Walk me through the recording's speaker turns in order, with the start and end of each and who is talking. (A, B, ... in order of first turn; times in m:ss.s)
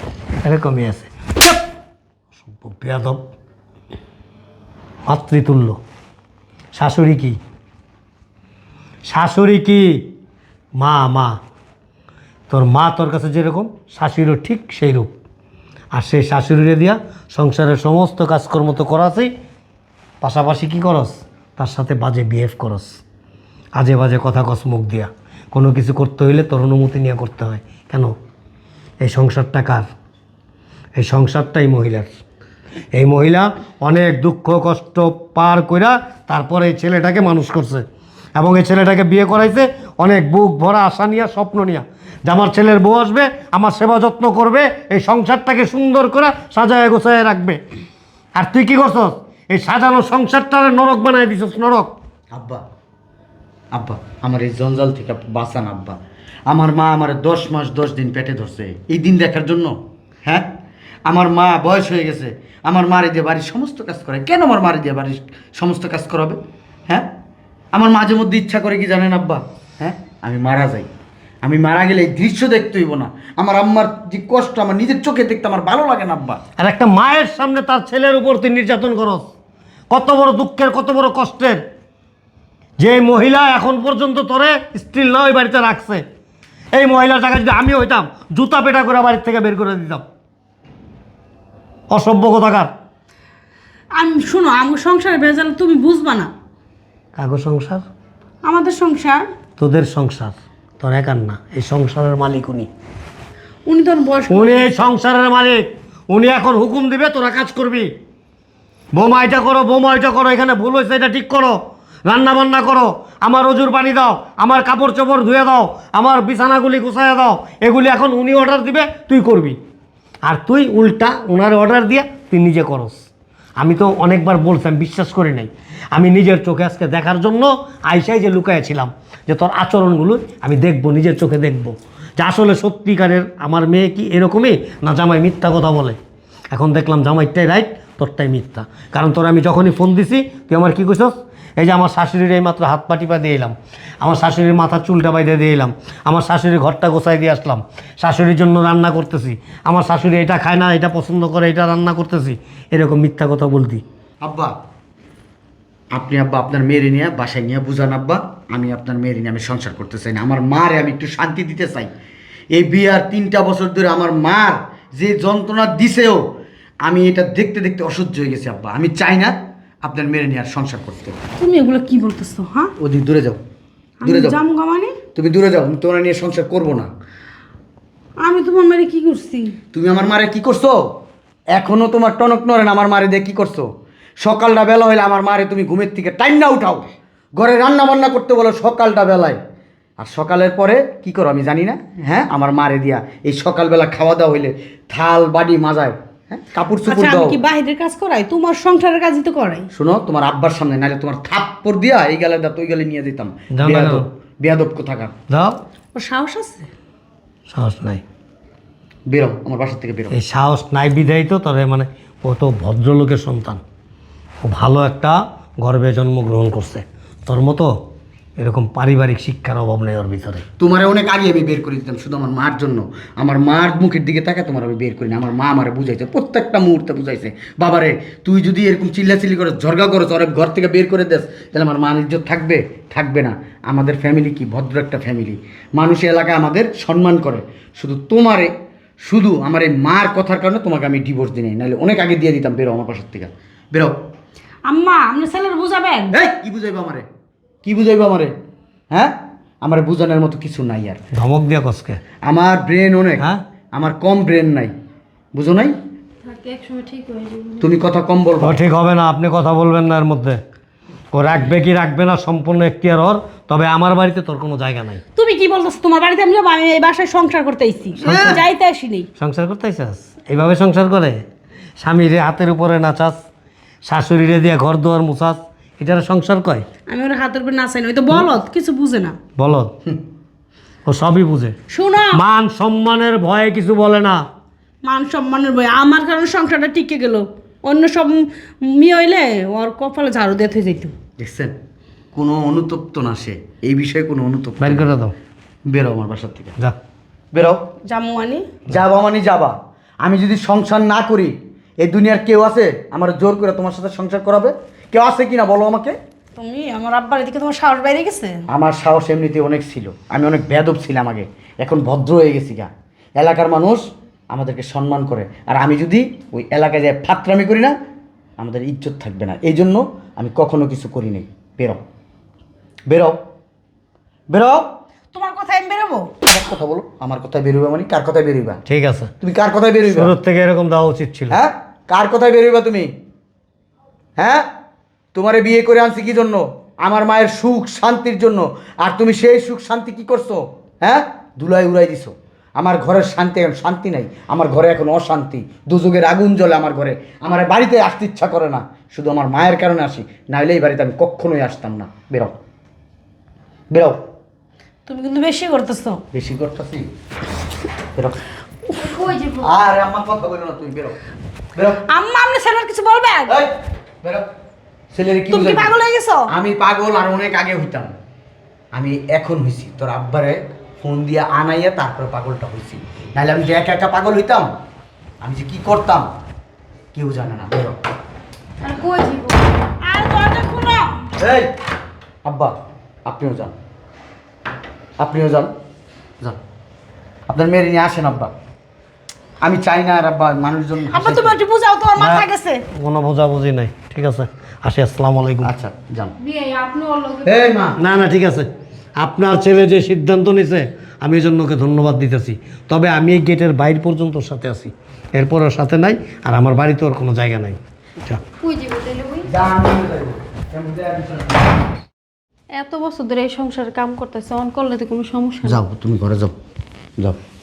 0:00.4-0:01.6 A
0:02.5-0:03.2 A
0:05.0-0:05.8 A
0:06.7-0:07.4 A
0:09.0-0:10.0 A
0:10.8-0:11.4 A
0:12.5-0:15.1 A
0:15.9-0:19.3 A
0:20.2-0:23.0 A
0:23.8-0:28.1 A
0:29.0-0:29.9 A
0:31.0-0:32.1 A
0:32.9-0:37.8 A
0:38.4-0:47.6 A
0:48.3-0:51.9 A
0:52.3-0:52.6 B
0:53.7-0:56.0 B
0:56.5-0:59.7 B
1:01.0-1:07.1 B
1:07.7-1:10.9 B
1:11.4-1:16.4 B
1:16.6-1:19.3 A
1:19.9-1:21.6 A
1:22.8-1:26.0 A
1:26.7-1:30.0 A
1:31.9-1:32.7 A
1:34.0-1:36.3 C
1:37.2-1:37.8 A
1:38.4-1:39.2 C
1:39.6-1:42.7 A
1:43.7-1:44.8 C
1:44.3-1:47.9 A
1:48.9-1:51.5 A
1:52.0-1:59.6 A
2:00.2-2:03.0 A
2:03.6-2:16.0 A
2:16.5-2:33.8 A
2:34.2-2:34.5 B
2:35.9-2:41.9 B
2:42.5-2:46.2 B
2:46.9-2:51.2 B
2:51.4-2:52.7 C
2:52.8-2:53.4 B
2:54.0-2:55.0 C
2:54.0-2:54.4 B
2:55.1-2:56.9 B
2:58.2-2:59.6 C
2:59.7-3:00.8 B
3:01.5-3:03.6 B
3:04.2-3:06.8 B
3:07.4-3:09.4 B
3:10.0-3:17.4 B
3:16.9-3:19.7 C
3:19.7-3:25.1 B
3:23.5-3:24.0 A
3:25.3-3:25.5 A
3:25.9-3:26.7 C
3:27.5-3:28.0 A
3:29.1-3:30.1 B
3:30.1-3:33.6 A
3:34.4-3:37.7 A
3:38.4-3:40.4 A
3:40.6-3:58.5 B
3:59.0-4:03.9 B
4:04.6-4:06.2 C
4:06.1-4:07.0 B
4:07.6-4:08.3 B
4:08.9-4:11.0 B
4:11.1-4:12.0 A
4:12.2-4:14.7 B
4:15.3-4:15.7 B
4:16.2-4:17.7 D
4:17.6-4:18.6 B
4:18.4-4:20.4 A
4:21.1-4:25.0 A
4:25.2-4:29.1 C
4:28.0-4:28.4 A
4:28.0-4:28.4 B
4:29.2-4:31.2 A
4:31.8-4:33.2 A
4:33.8-4:36.6 A
4:36.9-4:39.2 C
4:39.4-4:39.7 A
4:40.8-4:41.5 A
4:41.7-4:42.2 C
4:42.1-4:44.2 A
4:44.8-4:50.9 C
4:51.2-4:51.5 B
4:52.1-4:54.9 B
4:54.6-4:55.1 A
4:55.7-4:56.5 B
4:57.3-4:57.6 B
4:57.9-4:58.5 C
4:58.7-5:05.9 B
5:06.4-5:08.4 C
5:08.5-5:17.8 B
5:18.4-5:21.8 B
5:22.9-5:23.2 B
5:24.3-5:24.6 B
5:25.1-5:26.1 C
5:26.2-5:28.6 B
5:28.7-5:29.1 A
5:29.2-5:30.1 B
5:29.9-5:31.4 A
5:31.3-5:32.9 B
5:34.2-5:34.4 B
5:35.1-5:52.4 B
5:53.7-5:54.0 B
5:54.8-5:56.0 C
5:56.1-5:56.8 B
5:58.8-5:59.5 D
5:59.4-6:01.0 B
6:01.5-6:01.8 B
6:01.9-6:03.3 C
6:03.3-6:04.3 B
6:04.9-6:05.7 B
6:05.3-6:06.3 C
6:06.3-6:07.9 B
6:08.7-6:14.5 B
6:15.2-6:16.1 B
6:16.9-6:17.8 B
6:18.6-6:19.5 D
6:19.8-6:21.0 C
6:21.2-6:21.5 B
6:22.2-6:22.5 B
6:23.0-6:23.5 B
6:25.0-6:25.5 B
6:27.3-6:28.3 B
6:29.4-6:31.4 B
6:30.9-6:32.6 C
6:32.0-6:35.5 A
6:35.4-6:36.1 B
6:36.2-6:37.8 D
6:37.2-6:37.8 B
6:37.8-6:48.2 A
6:48.4-6:49.3 D
6:49.2-6:51.6 B
6:52.6-6:55.6 D
6:55.4-6:56.3 B